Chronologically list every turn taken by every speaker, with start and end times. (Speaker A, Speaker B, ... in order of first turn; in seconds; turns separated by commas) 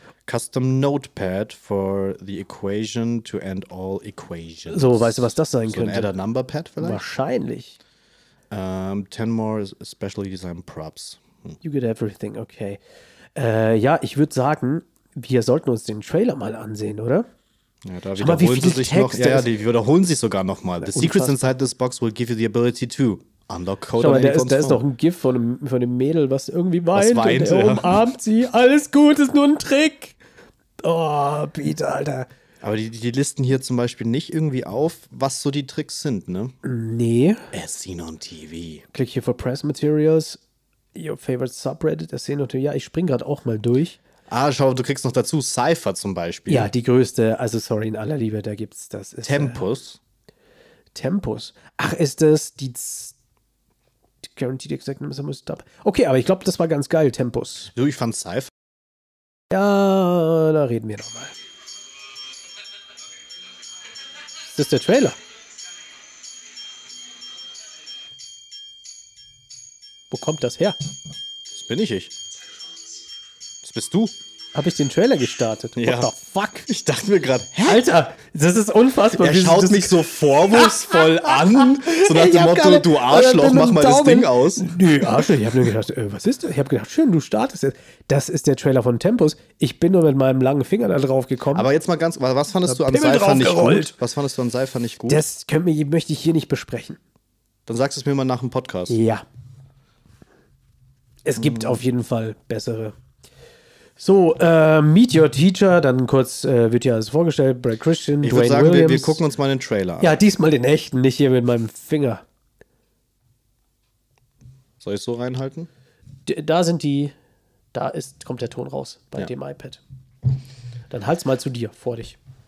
Speaker A: 0.2-7.0, Speaker B: 4.7-6.1, Speaker B: 6.8-7.8, Speaker A: 8.5-11.6, Speaker B: 11.6-12.8, Speaker B: 13.3-17.3, Speaker A: 17.8-24.8, Speaker B: 18.2-19.5, Speaker B: 20.8-21.4, Speaker B: 24.0-30.2, Speaker A: 26.9-28.1, Speaker B: 30.8-32.3, Speaker A: 32.6-36.5, Speaker B: 36.6-37.5, Speaker A: 37.5-38.8, Speaker B: 38.9-40.4, Speaker B: 40.9-44.0, Speaker A: 44.3-46.7, Speaker B: 46.5-49.6, Speaker A: 49.2-50.0, Speaker B: 50.9-53.1, Speaker B: 54.2-57.7, Speaker A: 57.7-58.5, Speaker B: 59.5-61.3, Speaker B: 64.5-65.2, Speaker B: 70.1-70.8, Speaker A: 71.5-72.1, Speaker A: 73.6-74.1, Speaker B: 74.5-76.7, Speaker A: 75.8-76.1, Speaker A: 76.7-77.9, Speaker B: 77.6-80.0, Speaker A: 79.1-85.3, Speaker B: 81.5-91.7, Speaker A: 91.5-95.2, Speaker B: 92.7-94.0, Speaker B: 95.1-97.0, Speaker A: 97.7-99.0, Speaker B: 98.9-99.2, Speaker B: 101.2-103.0, Speaker A: 101.4-101.8, Speaker B: 104.0-109.2, Speaker A: 108.2-110.1, Speaker B: 110.0-112.2, Speaker A: 114.8-115.7, Speaker B: 116.2-117.1, Speaker B: 117.7-119.8, Speaker B: 120.9-122.2